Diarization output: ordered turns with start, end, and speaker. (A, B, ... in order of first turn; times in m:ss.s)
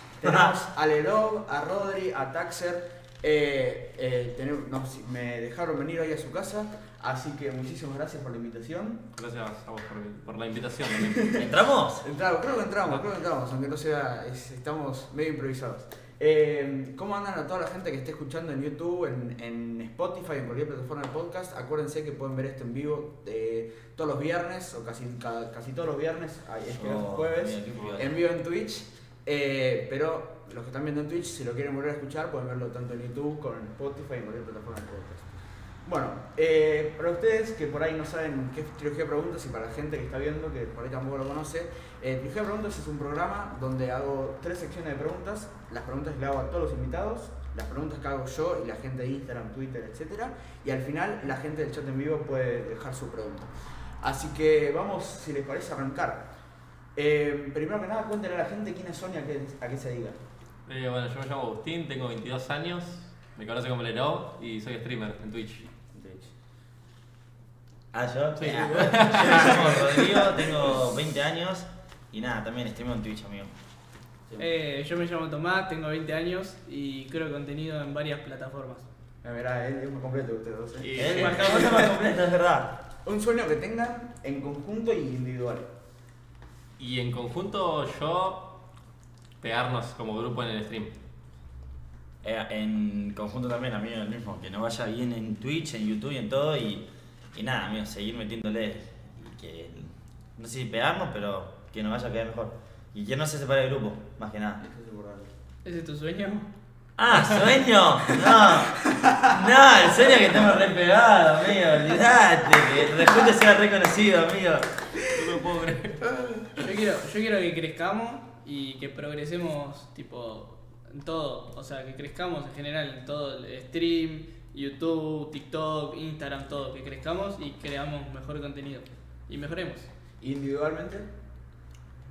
0:00.2-0:09.0 A
0:00.2-0:00.5 B
0:09.2-0:11.5 C
0:11.0-0:11.5 A
0:11.3-0:12.0 B
0:12.0-0:35.3 A
0:26.7-0:28.2 B
0:35.8-0:53.5 A
0:54.0-0:56.3 A
0:56.9-1:00.2 A
1:00.7-1:05.6 C
1:05.9-1:06.3 A
1:07.9-1:13.5 B
1:08.4-1:10.1 C
1:08.5-1:10.5 A
1:14.4-1:18.8 D
1:19.2-1:21.9 A
1:20.8-1:21.9 C
1:20.9-1:22.7 B
1:23.0-1:25.7 A
1:26.8-1:28.5 C
1:29.4-1:30.9 C
1:32.2-1:44.6 B
1:44.6-1:45.3 A
1:45.6-1:46.5 D
1:47.0-1:54.6 B
1:47.1-1:47.4 C
1:48.9-1:49.2 A
1:55.1-1:56.0 C
1:56.1-1:56.5 A
1:56.6-2:09.9 D
2:10.2-2:11.1 A